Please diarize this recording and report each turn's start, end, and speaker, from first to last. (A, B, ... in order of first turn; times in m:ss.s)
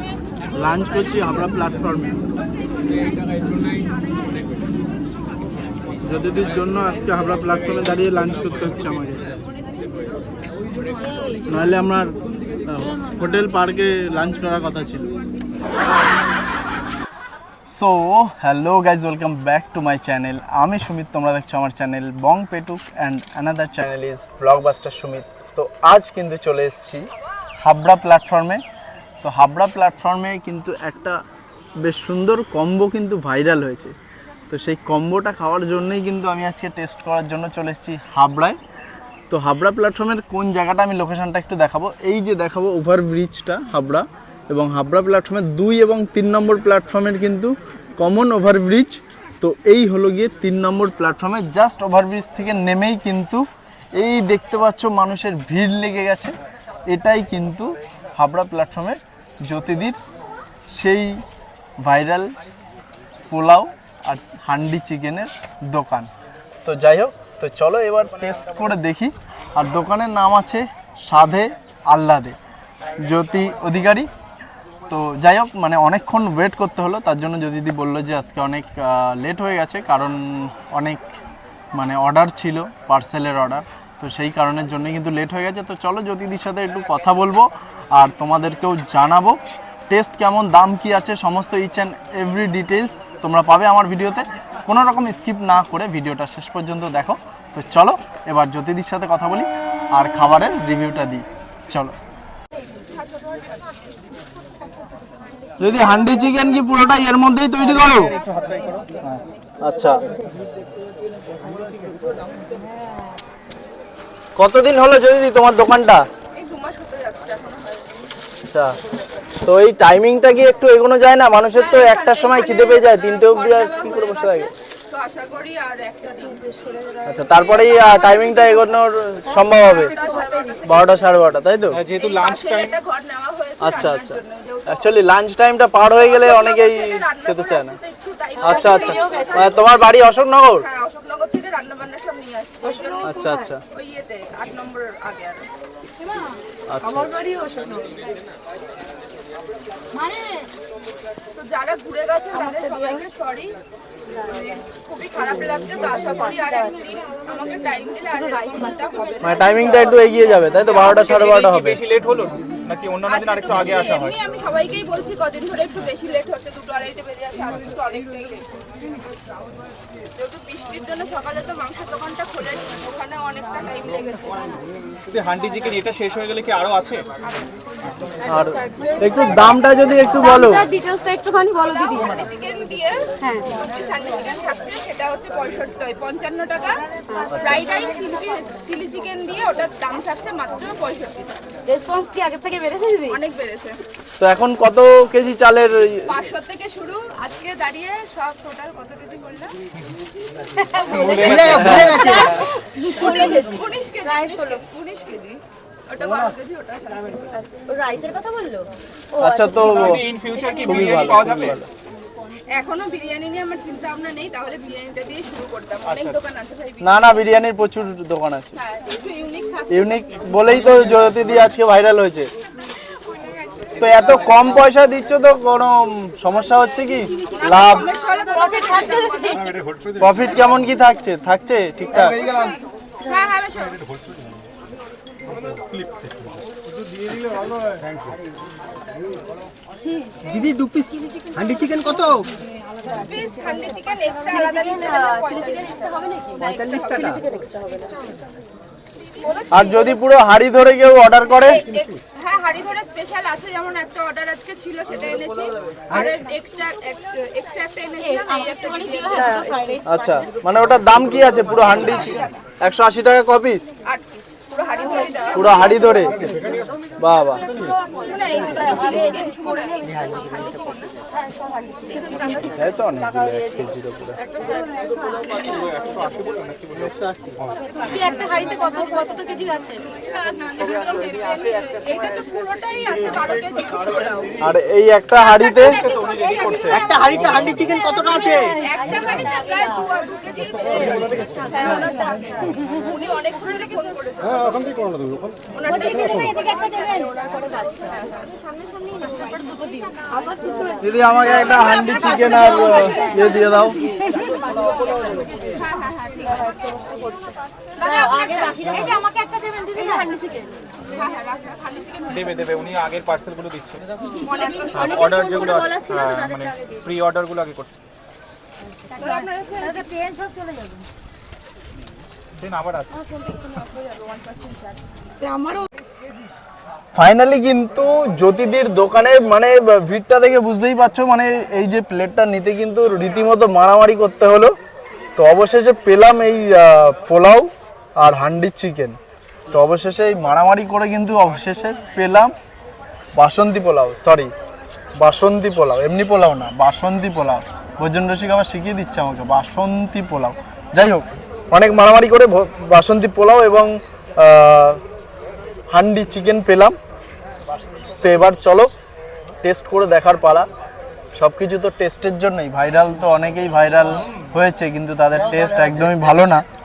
0:00.5-0:02.2 A
0:06.0-0:09.3 A
0:11.5-0:12.1 A
0:12.6-0:15.1 A
0:17.7-0:27.1 A
0:27.6-0:28.6 A
0:29.2-0:31.2 A
0:31.8-0:33.9 A
0:34.5-0:38.6 A
0:39.3-0:53.4 A
0:54.0-0:56.3 A
0:56.9-1:00.0 A
1:00.7-1:01.2 A
1:01.8-1:02.3 A
1:03.3-1:06.1 A
1:06.6-1:12.4 A
1:13.0-1:14.1 A
1:14.9-1:21.2 A
1:21.7-1:41.9 A
1:42.8-1:43.7 B
1:45.6-1:48.1 A
1:48.1-1:49.0 C
1:49.6-1:50.0 A
1:54.4-1:56.0 A
1:56.3-1:58.0 B
1:58.4-1:58.7 A
1:59.4-2:04.5 A
2:01.5-2:08.7 B
2:07.0-2:09.9 A
2:09.6-2:10.9 B
2:09.7-2:10.6 D
2:10.6-2:11.8 A
2:11.7-2:12.8 C
2:12.0-2:14.8 B
2:13.6-2:14.2 A
2:14.7-2:17.8 A
2:16.0-2:19.6 B
2:18.4-2:19.6 D
2:18.4-2:20.6 A
2:20.5-2:25.5 B
2:22.6-2:23.5 D
2:23.0-2:23.6 A
2:26.0-2:28.0 D
2:26.7-2:27.2 A
2:29.9-2:30.5 D
2:31.3-2:33.5 B
2:32.4-2:33.0 D
2:34.2-2:39.8 B
2:39.2-2:41.8 A
2:40.6-2:44.2 C
2:43.0-2:48.5 B
2:50.2-2:54.6 B
2:55.1-2:57.0 C
2:58.2-3:00.7 A
3:00.0-3:02.1 D
3:01.6-3:11.4 B
3:03.2-3:03.5 D
3:07.1-3:07.4 D
3:11.7-3:13.2 D
3:13.1-3:13.8 B
3:14.2-3:16.1 A
3:16.0-3:19.5 B
3:20.6-3:24.6 D
3:20.8-3:22.5 C
3:21.3-3:22.1 E
3:21.5-3:22.1 A
3:22.1-3:27.3 B
3:27.5-3:30.9 D
3:29.2-3:30.1 A
3:29.5-3:31.6 C
3:30.6-3:31.7 A
3:32.5-3:37.1 B
3:35.8-3:36.2 C
3:36.8-3:38.5 A
3:38.6-3:40.4 B
3:39.7-3:42.3 A
3:43.8-3:47.9 A
3:47.2-3:49.6 B
3:48.2-3:49.5 D
3:50.0-3:52.2 A
3:52.0-3:53.8 B
3:59.9-4:01.4 D
4:00.2-4:02.3 E
4:02.9-4:07.2 B
4:04.2-4:08.0 D
4:09.3-4:09.6 D
4:09.5-4:11.6 A
4:11.4-4:19.7 B
4:18.0-4:20.2 D
4:19.8-4:23.7 A
4:21.5-4:22.4 B
4:23.8-4:26.0 B
4:25.3-4:26.2 A
4:27.0-4:27.4 A
4:27.6-4:30.9 B
4:28.4-4:29.3 D
4:31.5-4:32.5 D
4:31.9-4:32.7 B
4:32.5-4:34.2 A
4:34.4-4:35.7 D
4:36.3-4:36.9 C
4:37.7-4:39.9 D
4:37.8-4:38.5 B
4:39.9-4:44.3 B
4:40.5-4:42.2 A
4:44.4-4:45.8 A
4:45.2-4:47.2 B
4:45.6-4:47.7 C
4:46.7-4:48.5 E
4:47.3-4:49.7 D
4:48.2-4:54.8 B
4:51.6-4:51.9 D
4:55.5-4:59.9 B
4:55.9-4:57.6 D
4:59.2-5:05.6 D
5:00.8-5:03.8 A
5:01.4-5:03.3 B
5:05.4-5:07.1 B
5:06.5-5:10.6 D
5:07.7-5:09.0 B
5:10.8-5:12.3 B
5:12.1-5:13.8 C
5:14.2-5:15.4 B
5:14.2-5:16.8 D
5:14.7-5:17.8 C
5:18.9-5:19.9 B
5:19.6-5:20.7 D
5:22.4-5:23.0 C
5:22.9-5:25.0 B
5:25.2-5:25.7 D
5:26.9-5:34.5 A
5:35.2-5:39.0 A
5:39.5-5:42.3 A
5:43.2-5:44.3 A
5:45.0-5:54.8 A
5:55.7-5:56.8 A
5:58.0-5:58.7 A
5:59.4-6:00.5 A
6:01.1-6:06.4 A